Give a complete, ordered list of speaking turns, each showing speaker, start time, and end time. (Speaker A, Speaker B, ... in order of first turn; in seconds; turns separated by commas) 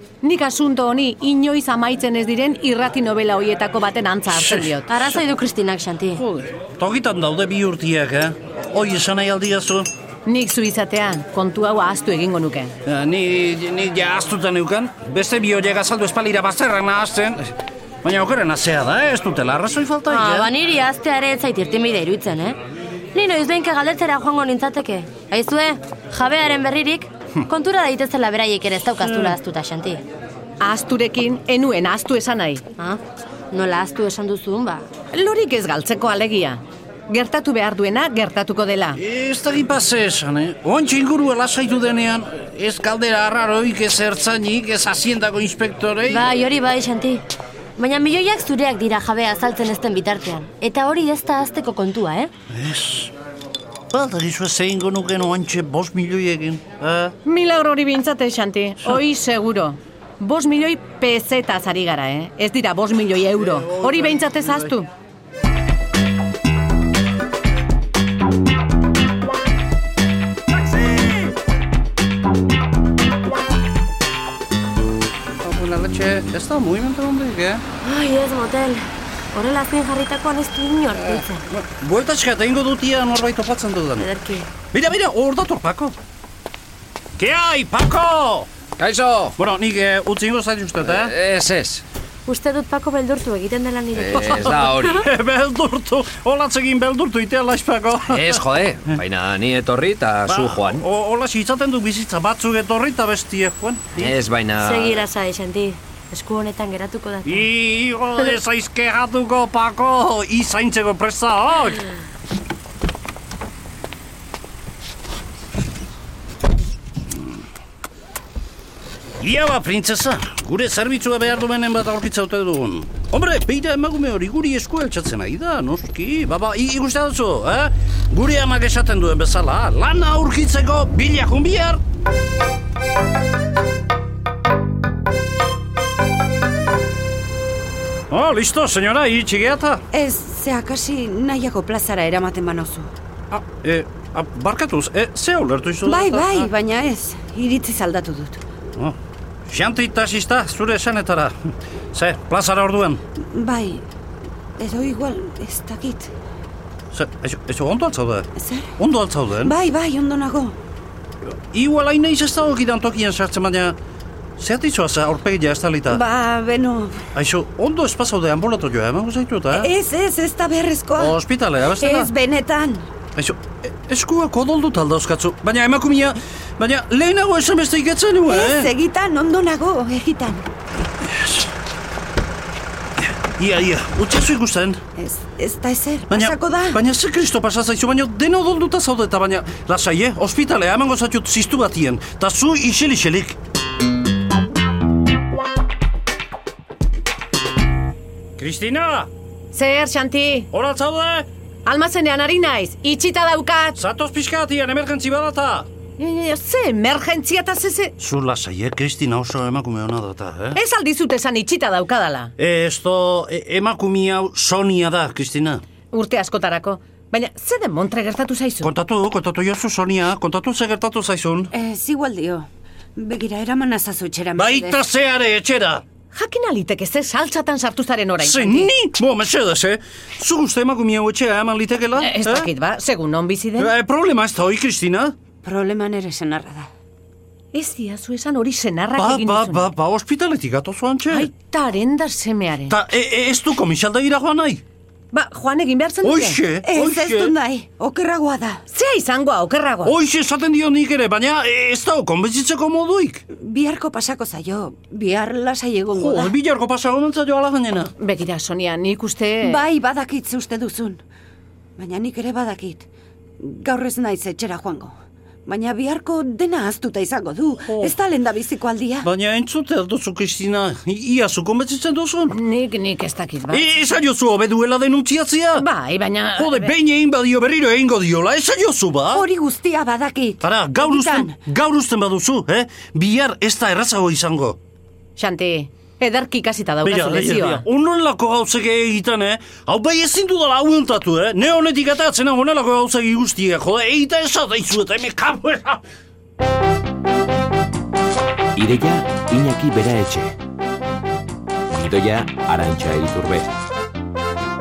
Speaker A: 0.2-4.9, Speaker B: 4.3-5.2, Speaker C: 4.9-6.2, Speaker B: 6.1-9.9, Speaker A: 10.2-12.7, Speaker B: 12.8-17.5, Speaker B: 18.0-20.5, Speaker C: 20.1-22.6, Speaker C: 23.1-30.0, Speaker B: 29.0-29.3, Speaker A: 30.6-32.6, Speaker C: 33.5-34.9, Speaker A: 35.1-39.0, Speaker B: 39.0-46.4, Speaker C: 46.1-47.2, Speaker C: 47.8-52.3, Speaker B: 52.5-53.1, Speaker B: 53.9-57.1, Speaker A: 57.2-64.9, Speaker B: 63.4-64.7, Speaker B: 75.4-77.6, Speaker C: 77.8-81.4, Speaker B: 80.9-84.1, Speaker C: 84.0-84.5, Speaker B: 84.7-86.0, Speaker B: 87.2-88.5, Speaker D: 88.8-89.3, Speaker B: 89.4-91.2, Speaker D: 90.8-91.8, Speaker C: 92.3-94.9, Speaker D: 93.9-95.1, Speaker B: 94.9-99.0, Speaker D: 98.1-100.8, Speaker B: 100.3-104.0, Speaker C: 104.0-107.5, Speaker D: 104.0-105.1, Speaker B: 107.2-111.8, Speaker B: 119.2-131.8, Speaker B: 138.1-139.8, Speaker E: 139.9-142.9, Speaker B: 143.3-146.5, Speaker E: 145.8-148.4, Speaker B: 148.8-153.0, Speaker E: 153.2-153.8, Speaker E: 154.6-156.1, Speaker B: 156.9-159.6, Speaker E: 158.4-158.7, Speaker E: 159.4-160.6, Speaker B: 161.2-163.8, Speaker B: 164.4-166.0, Speaker E: 165.9-167.1, Speaker B: 167.1-169.7, Speaker E: 169.5-171.2, Speaker B: 170.9-172.1, Speaker E: 171.7-172.8, Speaker B: 173.2-178.7, Speaker E: 178.2-180.5, Speaker B: 181.0-181.4, Speaker B: 183.0-184.8, Speaker E: 185.0-186.8, Speaker B: 186.1-193.4, Speaker B: 198.4-199.1, Speaker A: 199.5-200.5, Speaker B: 200.5-201.3, Speaker A: 201.7-203.8, Speaker B: 203.8-205.7, Speaker A: 206.0-207.9, Speaker B: 208.0-210.6, Speaker A: 210.5-212.3, Speaker B: 212.4-215.6, Speaker A: 215.9-218.7, Speaker B: 218.6-221.5, Speaker E: 221.5-224.8, Speaker B: 224.3-225.8, Speaker A: 226.1-228.7, Speaker B: 228.2-232.5, Speaker A: 232.0-233.7, Speaker B: 233.6-235.2, Speaker E: 235.4-236.7, Speaker A: 237.5-239.7, Speaker B: 239.0-241.3, Speaker A: 241.1-242.7, Speaker B: 242.7-244.6, Speaker A: 245.1-246.4, Speaker B: 246.0-247.3, Speaker E: 246.6-248.6, Speaker A: 248.7-249.9, Speaker B: 249.8-253.2, Speaker E: 253.3-256.3, Speaker B: 255.9-257.9, Speaker A: 258.0-259.6, Speaker E: 259.4-261.0, Speaker E: 261.8-262.8, Speaker E: 263.4-264.9, Speaker E: 265.4-269.1, Speaker B: 267.7-267.9, Speaker B: 269.0-272.4, Speaker A: 272.3-273.7, Speaker B: 273.5-275.6, Speaker A: 275.5-276.7, Speaker B: 276.4-279.3, Speaker E: 279.1-281.4, Speaker B: 280.4-284.6, Speaker A: 285.1-287.6, Speaker B: 286.8-295.8, Speaker F: 298.5-300.4, Speaker F: 301.7-303.5